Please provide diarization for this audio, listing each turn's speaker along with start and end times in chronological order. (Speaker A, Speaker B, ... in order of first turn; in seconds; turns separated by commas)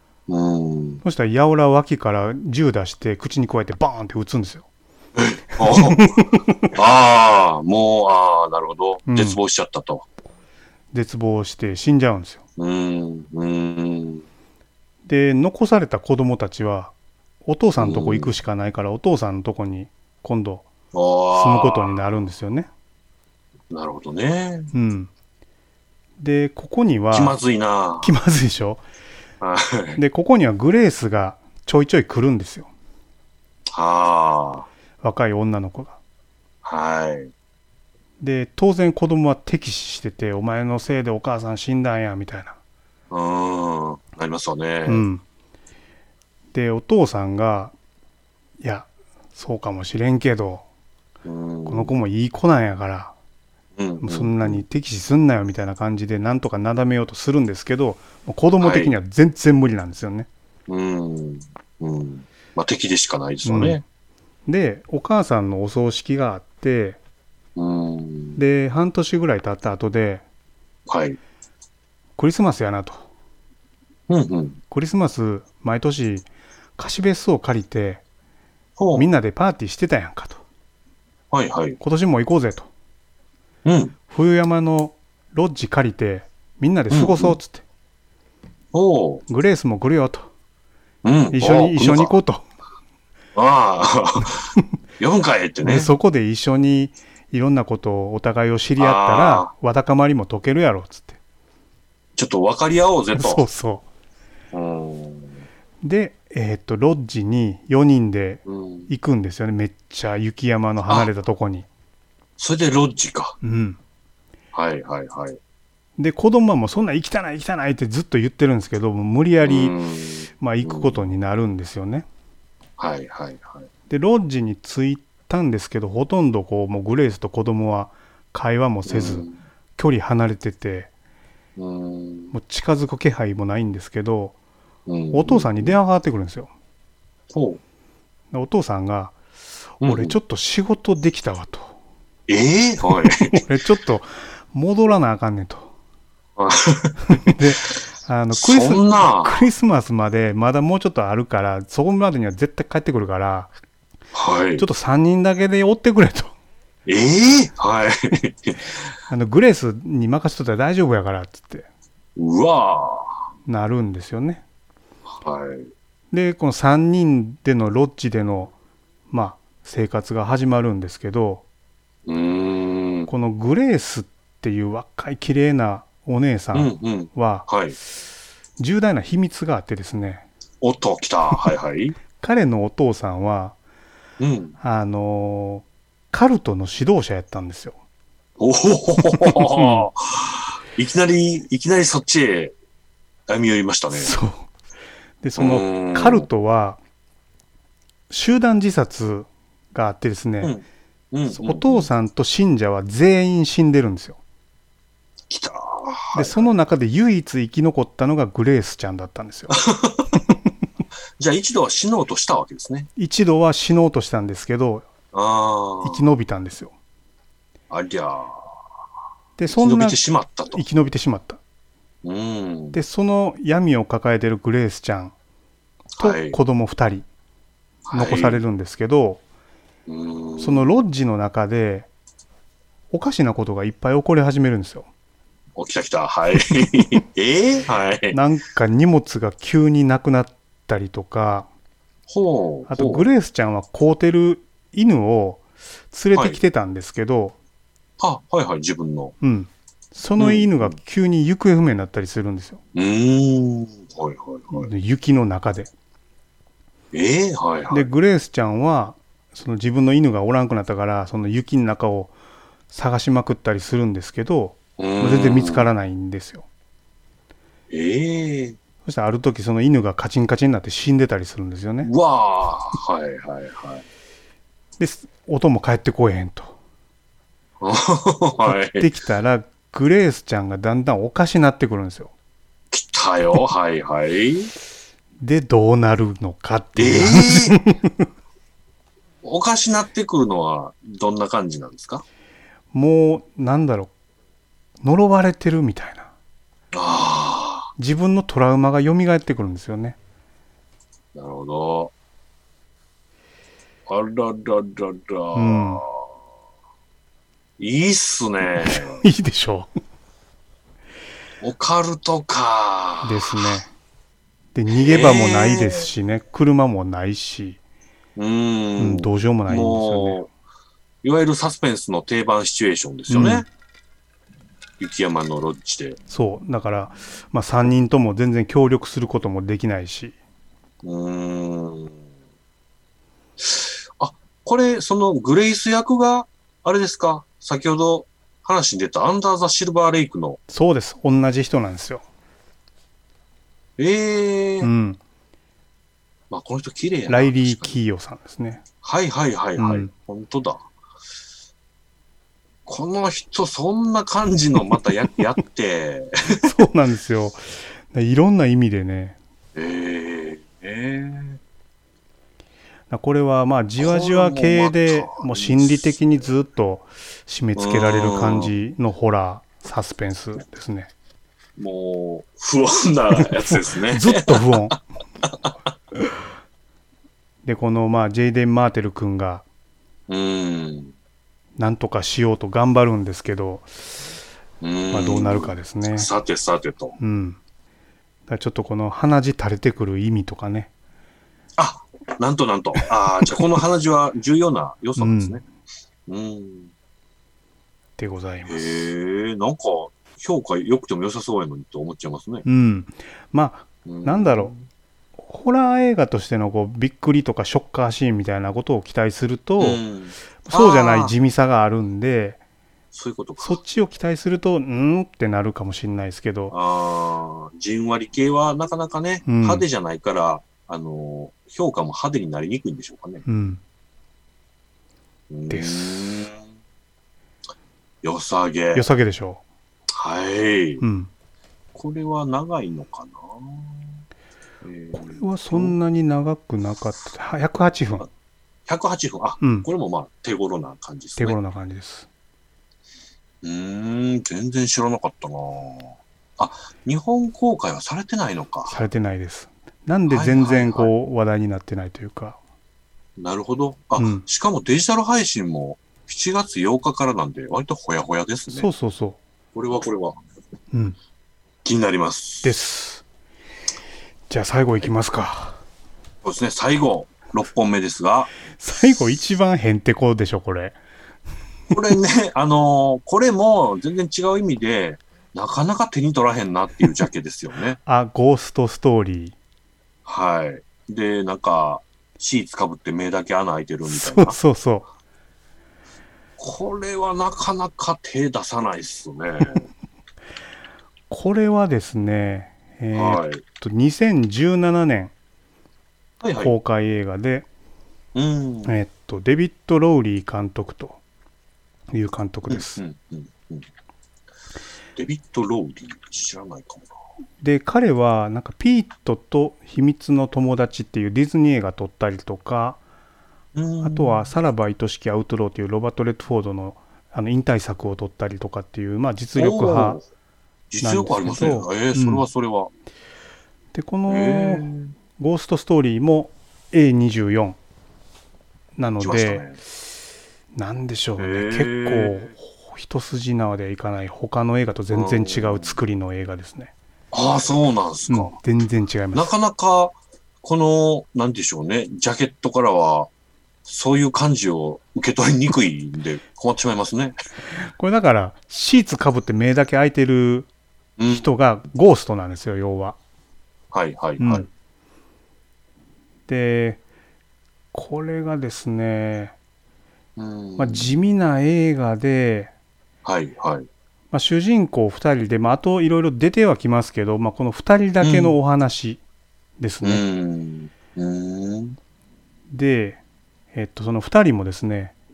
Speaker A: 0.3-1.0, Speaker B: 1.0-4.6, Speaker A: 5.1-6.1, Speaker B: 5.6-6.7, Speaker A: 6.7-10.0, Speaker B: 9.1-9.4, Speaker B: 10.9-12.4, Speaker A: 12.6-14.2, Speaker B: 15.1-16.9, Speaker B: 17.4-20.6, Speaker A: 17.8-18.3, Speaker A: 20.9-22.0, Speaker B: 21.3-22.7, Speaker A: 23.7-24.7, Speaker B: 24.7-25.1, Speaker B: 26.2-27.4, Speaker A: 27.1-28.1, Speaker B: 28.0-28.8, Speaker A: 29.4-30.0, Speaker B: 30.0-32.7, Speaker A: 33.7-34.7, Speaker B: 35.0-36.0, Speaker A: 36.6-37.3, Speaker B: 38.2-42.6, Speaker A: 43.1-45.0, Speaker B: 44.9-45.2, Speaker B: 46.5-47.7, Speaker B: 48.6-50.6, Speaker A: 51.2-51.9, Speaker B: 51.7-53.1, Speaker A: 53.8-54.6, Speaker B: 54.0-60.3, Speaker A: 58.6-58.9, Speaker A: 60.7-63.8, Speaker B: 63.4-63.8, Speaker B: 64.5-67.0, Speaker A: 67.5-68.4, Speaker B: 68.3-70.2, Speaker A: 70.9-71.2, Speaker B: 72.2-73.0, Speaker A: 74.1-74.6, Speaker B: 74.7-78.0, Speaker A: 78.8-79.0, Speaker B: 78.9-80.4, Speaker A: 81.3-81.8, Speaker B: 81.8-82.7, Speaker A: 83.6-83.9, Speaker B: 84.1-87.6, Speaker A: 86.9-87.4, Speaker A: 88.7-89.2, Speaker B: 89.3-90.3, Speaker A: 91.0-92.1, Speaker B: 91.3-92.4, Speaker A: 93.3-95.9, Speaker B: 95.6-101.2, Speaker A: 98.8-99.5, Speaker A: 102.2-103.4, Speaker B: 103.2-103.8, Speaker A: 104.5-105.4, Speaker B: 105.8-111.7, Speaker A: 108.5-108.9, Speaker A: 112.4-113.4, Speaker B: 113.4-113.8, Speaker A: 114.5-115.4, Speaker B: 116.0-119.7, Speaker A: 119.4-121.0, Speaker B: 120.4-122.0, Speaker A: 122.8-123.7, Speaker B: 123.9-129.2, Speaker A: 128.8-129.4, Speaker B: 129.8-130.9, Speaker A: 131.6-132.3, Speaker B: 132.3-134.3, Speaker A: 134.9-135.8, Speaker B: 135.1-136.5, Speaker A: 137.3-137.6, Speaker B: 138.3-139.1, Speaker A: 139.8-140.2, Speaker B: 139.8-141.7, Speaker A: 142.3-143.4, Speaker B: 143.1-145.7, Speaker A: 146.3-147.0, Speaker B: 147.1-153.5, Speaker A: 148.3-149.4, Speaker A: 154.1-154.7, Speaker B: 154.6-156.3, Speaker A: 156.8-158.7, Speaker B: 159.1-161.7, Speaker A: 162.2-163.1, Speaker B: 163.4-164.4, Speaker A: 165.1-165.7, Speaker B: 166.1-168.5, Speaker B: 169.1-171.4, Speaker A: 172.1-173.1, Speaker B: 173.1-177.5, Speaker A: 176.5-177.8, Speaker B: 178.6-180.2, Speaker A: 180.6-181.9, Speaker B: 182.2-183.6, Speaker A: 184.2-184.6, Speaker B: 184.6-187.7, Speaker A: 188.4-192.5, Speaker B: 189.0-189.9, Speaker A: 193.3-194.1, Speaker B: 193.9-194.5, Speaker B: 195.2-196.8, Speaker A: 195.4-196.3, Speaker B: 198.1-200.5, Speaker A: 200.4-201.9, Speaker B: 201.3-204.2, Speaker A: 205.3-206.5, Speaker B: 206.1-209.6, Speaker A: 209.5-210.2, Speaker A: 211.2-212.9, Speaker B: 212.9-214.8, Speaker A: 215.1-216.0, Speaker B: 215.8-216.7, Speaker A: 217.7-218.5, Speaker B: 219.4-221.4, Speaker A: 219.5-220.6, Speaker A: 222.0-222.8, Speaker B: 222.7-225.1, Speaker A: 226.0-226.4, Speaker B: 226.0-227.1, Speaker A: 227.8-228.4, Speaker B: 227.9-229.2, Speaker A: 229.9-230.7, Speaker B: 230.4-231.9, Speaker B: 232.9-234.9, Speaker A: 235.6-238.2, Speaker B: 238.1-241.5, Speaker A: 242.1-243.1, Speaker B: 242.7-247.3, Speaker A: 246.1-246.4, Speaker A: 248.0-249.1, Speaker B: 249.2-252.6, Speaker A: 250.2-250.8, Speaker A: 252.7-254.7, Speaker B: 254.5-255.7, Speaker A: 256.9-257.9, Speaker B: 257.7-262.1, Speaker B: 262.7-266.4, Speaker A: 264.8-265.7, Speaker A: 267.7-268.6, Speaker B: 268.8-271.9, Speaker A: 271.8-273.8, Speaker B: 274.8-276.5, Speaker A: 277.6-278.9, Speaker B: 278.4-282.1, Speaker A: 282.7-284.5, Speaker B: 285.2-288.0, Speaker A: 286.8-287.6, Speaker A: 289.2-292.0, Speaker B: 292.7-293.9, Speaker B: 294.8-296.1, Speaker A: 296.7-297.7, Speaker B: 297.8-300.0, Speaker A: 301.1-301.9, Speaker A: 303.9-306.1, Speaker B: 305.3-305.8, Speaker A: 307.6-309.0, Speaker B: 308.6-309.7, Speaker A: 311.4-313.5, Speaker B: 313.0-313.7, Speaker B: 314.5-317.6, Speaker A: 314.7-315.9, Speaker A: 318.1-320.3, Speaker B: 318.8-320.2, Speaker A: 321.0-323.4, Speaker B: 323.1-323.4, Speaker A: 324.8-326.0, Speaker B: 326.1-330.1, Speaker A: 330.8-331.9, Speaker A: 333.4-340.4, Speaker B: 340.5-342.0, Speaker A: 343.8-344.7, Speaker B: 344.6-345.0, Speaker A: 346.3-347.8, Speaker B: 347.1-348.6, Speaker A: 348.8-350.6, Speaker B: 349.6-349.9, Speaker A: 352.6-356.5, Speaker B: 356.3-359.2, Speaker A: 359.5-361.4, Speaker B: 362.9-370.9, Speaker A: 363.8-366.0, Speaker A: 367.5-368.5, Speaker A: 371.6-375.5, Speaker B: 373.2-374.8, Speaker B: 377.4-379.4, Speaker A: 380.1-380.9, Speaker B: 381.6-383.7, Speaker A: 384.6-387.0, Speaker B: 384.9-386.1, Speaker B: 387.0-387.4, Speaker B: 388.3-390.7, Speaker A: 391.6-395.4, Speaker B: 394.9-395.4, Speaker A: 396.1-396.7, Speaker B: 398.0-398.9, Speaker A: 398.5-402.4, Speaker B: 402.4-404.5, Speaker A: 403.9-404.6, Speaker B: 405.2-409.8, Speaker A: 409.6-411.1, Speaker B: 410.4-412.4, Speaker A: 412.9-413.6, Speaker B: 413.4-416.6, Speaker A: 416.5-423.2, Speaker B: 419.2-419.6, Speaker B: 423.2-423.6, Speaker A: 425.3-426.4, Speaker B: 425.5-426.1, Speaker A: 428.0-428.9, Speaker B: 428.7-429.4, Speaker A: 429.9-430.8, Speaker B: 430.8-431.1, Speaker A: 431.7-434.0, Speaker A: 434.6-435.8, Speaker B: 435.0-438.1, Speaker A: 438.7-441.4, Speaker B: 439.4-439.7, Speaker B: 441.2-442.1, Speaker A: 443.4-448.8, Speaker B: 448.7-452.4, Speaker A: 450.1-450.9, Speaker A: 453.2-458.7, Speaker B: 454.0-454.2, Speaker B: 458.5-459.2, Speaker A: 459.5-460.2, Speaker A: 461.6-462.6, Speaker B: 462.4-463.0, Speaker B: 464.3-465.6, Speaker A: 466.2-468.3, Speaker B: 468.6-470.8, Speaker A: 471.7-477.8, Speaker B: 477.9-479.3, Speaker A: 480.0-484.4, Speaker B: 483.9-484.9, Speaker A: 486.4-489.6, Speaker B: 491.1-495.1, Speaker A: 492.9-493.4, Speaker A: 496.2-496.5, Speaker B: 496.4-497.5, Speaker A: 498.1-498.7, Speaker B: 498.6-501.0, Speaker B: 501.9-502.8, Speaker A: 502.5-503.7, Speaker A: 504.9-506.9, Speaker B: 507.4-512.8, Speaker A: 513.5-514.3, Speaker B: 513.8-520.0, Speaker A: 519.4-520.0, Speaker A: 520.7-522.7, Speaker B: 520.8-522.2, Speaker B: 523.7-524.6, Speaker A: 524.1-524.9, Speaker B: 525.2-527.6, Speaker B: 528.8-529.4, Speaker A: 529.0-529.6, Speaker B: 530.5-536.7, Speaker A: 531.2-532.3, Speaker A: 534.9-535.8, Speaker A: 537.1-538.4, Speaker B: 538.1-539.3, Speaker A: 539.1-543.1, Speaker A: 543.6-547.1, Speaker B: 547.7-550.5, Speaker A: 551.0-551.3, Speaker B: 551.1-553.0, Speaker A: 553.7-554.5, Speaker B: 554.2-554.5, Speaker B: 556.3-556.8, Speaker B: 557.7-559.3, Speaker A: 560.2-560.9, Speaker B: 560.6-562.5, Speaker A: 563.0-563.7, Speaker B: 564.1-569.0, Speaker A: 568.0-568.4, Speaker B: 569.6-570.0, Speaker A: 569.8-571.8, Speaker B: 572.5-573.0, Speaker B: 573.5-574.9